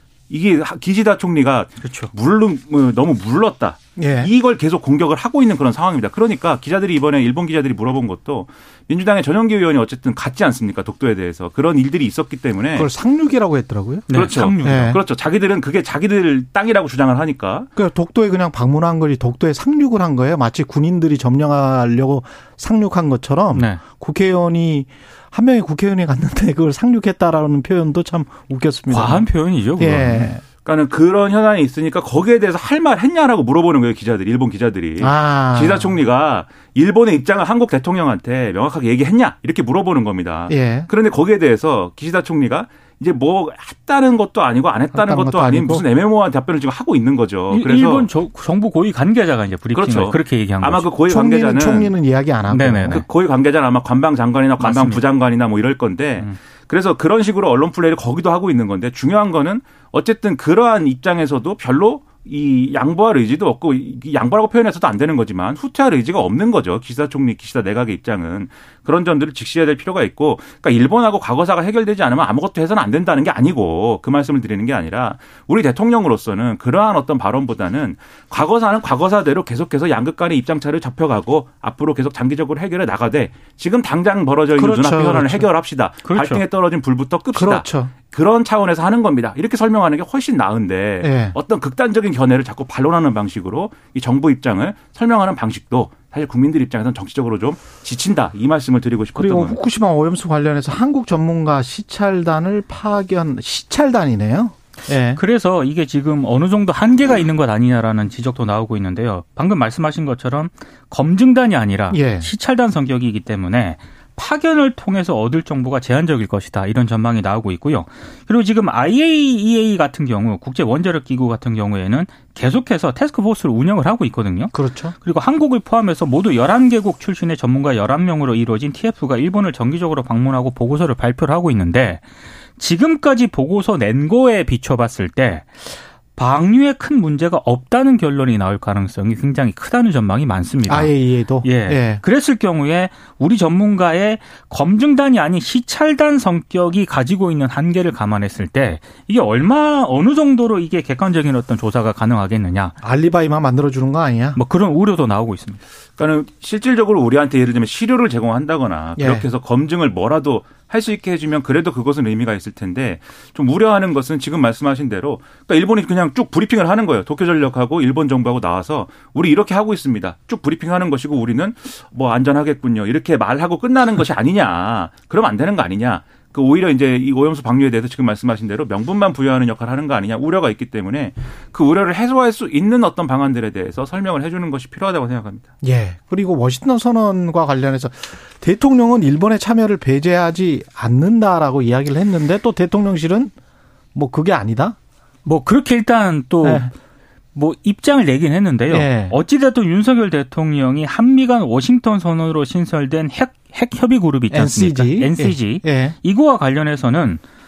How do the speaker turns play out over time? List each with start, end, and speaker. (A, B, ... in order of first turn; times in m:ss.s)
0:00.3-0:12.9 A
0:01.8-0:02.1 B
0:04.0-0:04.3 C
0:12.7-0:15.0 C
0:14.1-0:14.9 B
0:14.1-0:17.7 A
0:17.8-0:30.4 C
0:23.5-0:23.8 B
0:28.9-0:30.3 B
0:30.6-0:48.1 A
0:35.0-0:36.0 C
0:40.5-0:40.9 C
0:44.9-0:45.8 C
0:47.5-0:50.8 B
0:49.7-0:51.9 A
0:51.1-0:53.0 C
0:52.5-0:53.0 B
0:52.9-1:39.6 A
0:54.6-0:55.0 B
1:24.5-1:25.5 C
1:26.0-1:26.4 B
1:27.3-1:27.9 C
1:31.0-1:31.4 C
1:39.2-1:45.2 C
1:45.1-2:12.0 B
1:51.9-1:52.3 C
2:04.5-2:04.9 C
2:12.6-2:32.7 B
2:20.7-2:22.0 C
2:32.8-2:34.4 C
2:34.3-2:35.6 B
2:36.0-3:05.5 A
2:39.0-2:39.2 C
3:05.6-3:13.3 C
3:13.9-3:14.8 C
3:15.2-3:16.7 B
3:16.4-3:16.7 C
3:17.3-3:27.2 B
3:18.7-3:19.2 C
3:24.3-3:26.0 C